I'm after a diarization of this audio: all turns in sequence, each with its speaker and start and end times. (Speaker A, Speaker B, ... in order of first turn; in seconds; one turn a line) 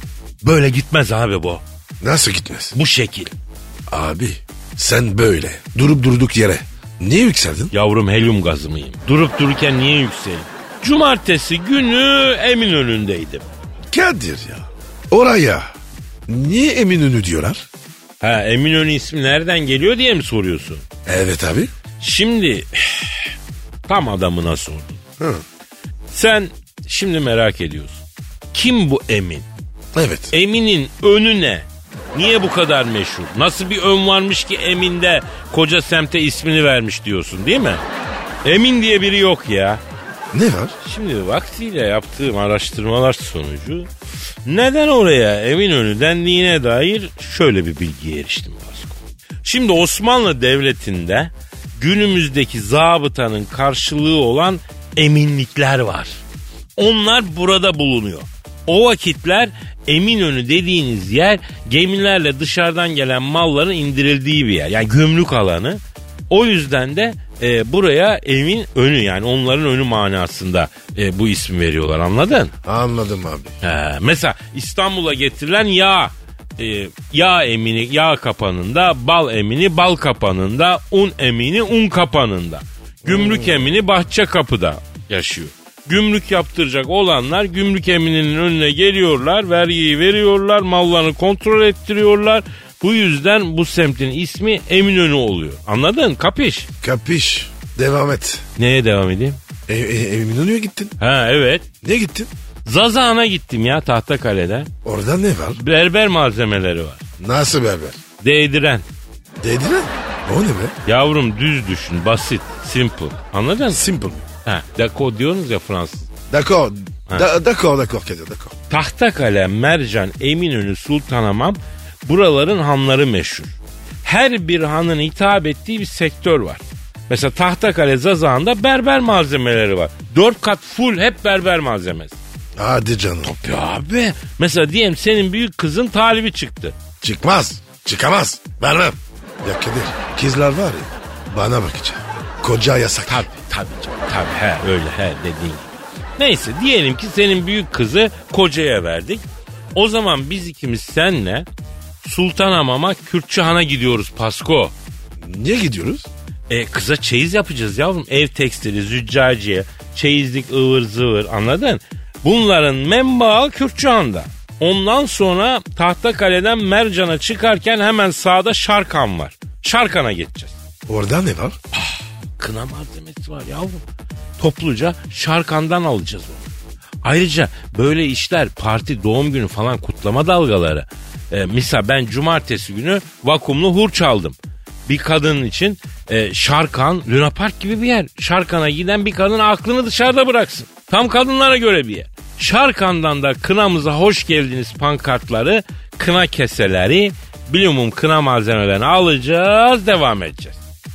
Speaker A: 0.4-1.6
Speaker B: 2.0-2.8
Speaker A: 2.7-3.4
Speaker B: 3.9-7.7
Speaker A: 7.7-13.5
Speaker B: 13.9-15.7
Speaker B: 16.3-17.7
Speaker A: 18.2-20.8
Speaker B: 21.1-21.7
Speaker A: 22.0-23.4
Speaker A: 23.9-25.0
Speaker B: 25.2-25.4
Speaker A: 26.1-29.5
Speaker B: 29.9-30.3
Speaker A: 30.3-37.8
Speaker A: 38.4-39.8
Speaker B: 40.3-40.8
Speaker A: 40.8-43.9
Speaker A: 44.5-56.2
Speaker A: 56.8-72.5
Speaker B: 72.7-73.5
Speaker A: 73.6-96.7
Speaker B: 83.0-83.7
Speaker B: 96.8-98.5
Speaker A: 98.6-99.4
Speaker B: 99.7-101.0
Speaker A: 101.0-101.7
Speaker B: 101.8-102.3
Speaker A: 102.7-104.7
Speaker B: 104.8-105.6
Speaker A: 105.5-107.0
Speaker B: 107.2-108.0
Speaker A: 108.2-108.9
Speaker B: 109.4-110.8
Speaker A: 110.9-113.9
Speaker B: 113.7-114.3
Speaker A: 114.5-116.1
Speaker B: 116.3-118.5
Speaker A: 118.7-123.5
Speaker A: 124.0-132.2
Speaker B: 132.6-133.3
Speaker A: 133.2-136.8
Speaker B: 137.0-143.2
Speaker A: 143.1-149.2
Speaker A: 149.8-151.5
Speaker A: 152.0-154.7
Speaker B: 155.2-156.1
Speaker A: 156.5-170.6
Speaker B: 170.9-171.6
Speaker A: 171.7-173.8
Speaker A: 174.4-176.5
Speaker A: 177.0-200.6